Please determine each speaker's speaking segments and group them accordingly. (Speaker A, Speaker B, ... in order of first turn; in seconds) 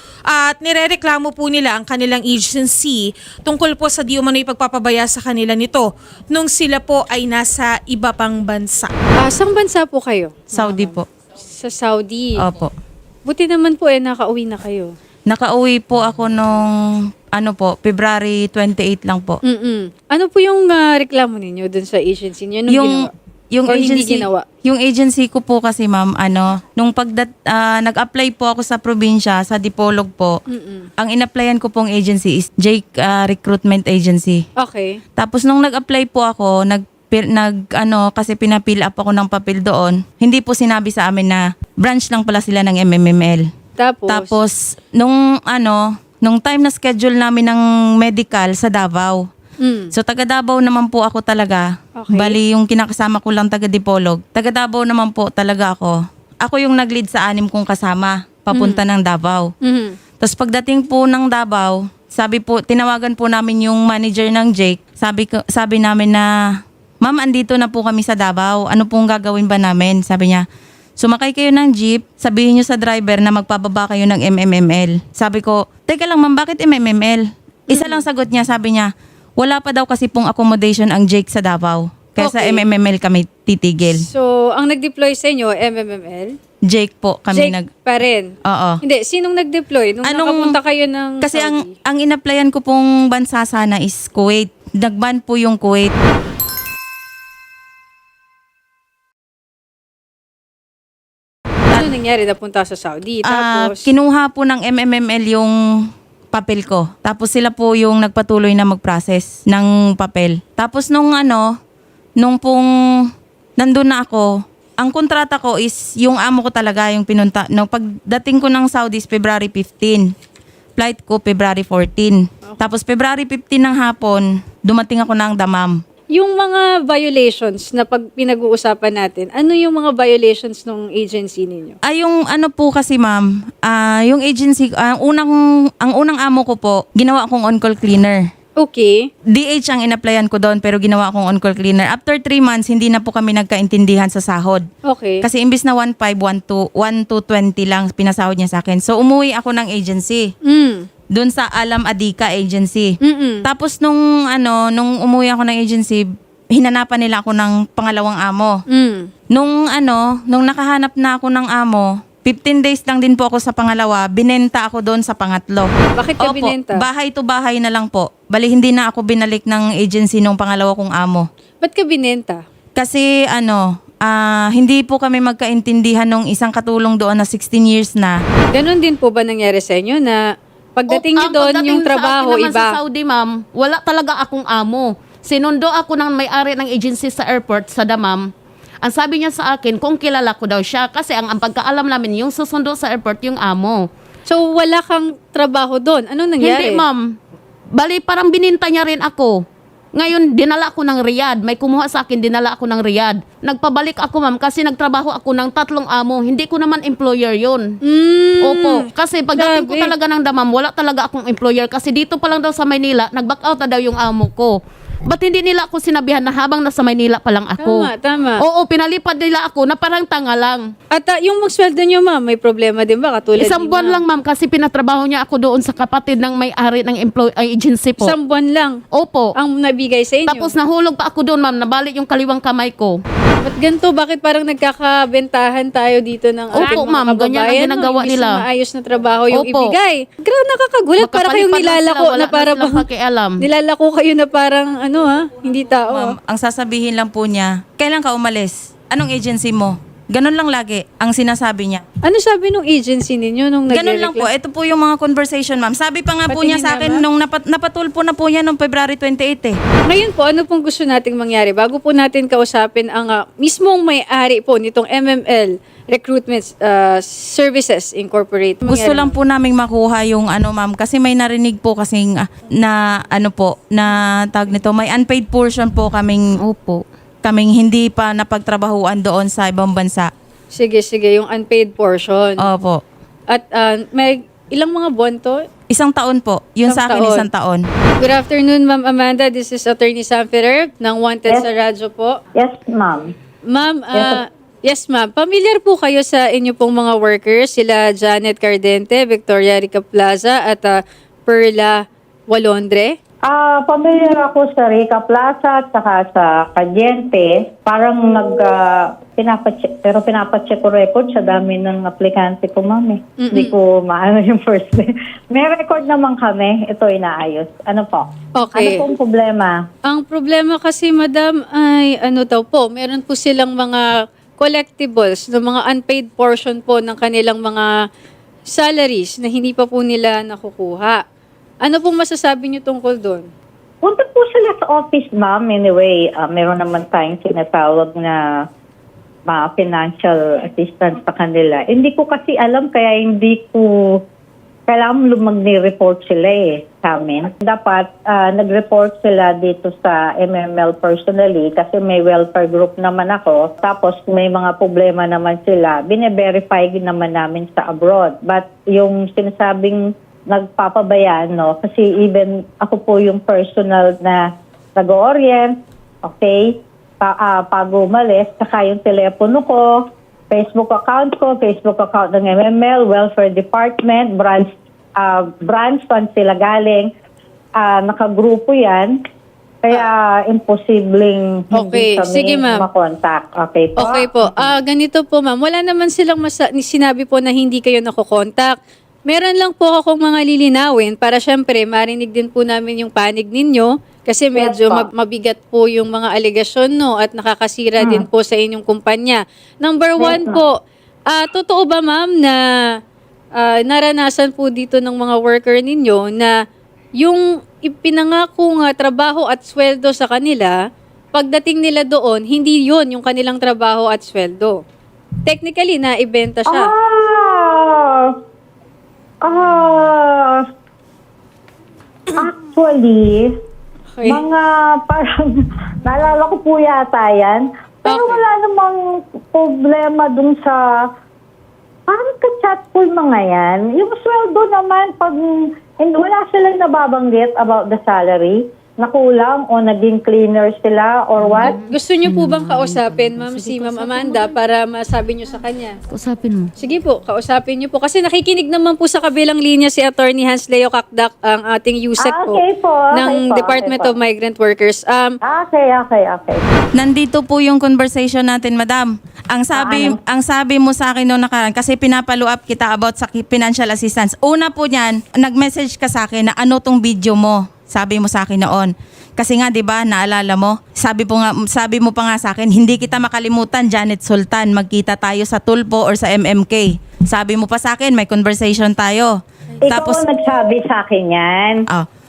Speaker A: 0.3-8.9
Speaker B: 9.2-11.0, 11.5-12.4, 13.2-14.9, 19.4-23.1, 23.6-24.4, 30.5-30.9, 34.6-35.0, 43.8-44.4, 49.6-49.9, 52.0-52.4, 58.5-58.8, 59.6-60.0, 77.7-78.0, 82.2-82.6, 83.9-86.3, 87.3-91.7, 101.7-103.9, 126.1-131.8, 138.6-139.1, 144.8-145.2, 150.4-150.8, 153.0-153.4, 158.7-159.1, 165.9-166.8, 171.6-172.4, 178.5-180.2, 180.8-182.8, 194.3-196.8, 207.8-209.9, 217.6-218.4, 220.9-224.0, 228.0-228.8, 229.3-230.5, 233.4-242.8, 243.4-246.1, 252.0-254.3, 256.3-257.0, 259.9-269.1, 280.5-282.4, 283.3-285.4, 286.6-287.2, 288.0-292.1, 293.5-302.9, 313.2-313.5, 318.4-318.9, 319.9-327.7, 328.5-331.0, 331.6-333.3, 381.5-382.6, 383.8-388.5, 389.1-400.5, 401.1-402.4, 403.3-406.3, 407.0-410.6, 411.1-414.6, 415.2-416.7, 423.9-424.2, 427.9-428.2, 441.7-445.8, 446.6-455.2
Speaker C: 10.5-11.1, 12.4-12.7, 15.3-16.7, 17.3-19.4, 22.7-30.4, 31.0-34.4, 35.2-43.4, 44.1-49.2, 49.9-59.5, 60.2-66.3, 67.0-70.4, 71.0-84.0, 86.7-87.7, 88.5-88.8, 90.0-90.5, 91.2-95.9, 103.2-105.5, 106.3-111.5, 112.2-112.7, 113.6-120.1, 120.8-125.8, 131.8-138.2, 139.3-144.6, 145.2-150.3, 151.1-158.6, 159.3-171.2, 172.8-178.2, 245.4-251.8, 253.7-259.6, 268.6-276.2, 277.2-280.1, 282.4-282.8, 285.7-287.6, 456.7-480.0
Speaker D: 180.9-188.2, 188.8-193.8, 196.4-197.0, 197.7-199.4, 199.9-207.7, 208.4-220.7, 223.3-228.2, 228.9-229.3, 230.2-233.0, 236.5-238.4, 239.3-239.7, 241.0-243.4, 276.4-276.8, 441.2-444.3, 445.9-446.5
Speaker E: 292.4-293.1, 303.3-319.6, 333.8-338.2, 339.3-344.0, 344.7-369.8, 370.3-376.9, 377.6-379.0, 379.6-384.5, 394.3-394.9, 397.8-398.0, 400.0-400.4, 416.5-418.1, 419.2-420.4, 422.1-423.3, 424.0-425.3, 425.8-430.8, 431.9-441.6, 452.0-453.9, 455.2-456.4, 459.5-460.0, 479.6-481.6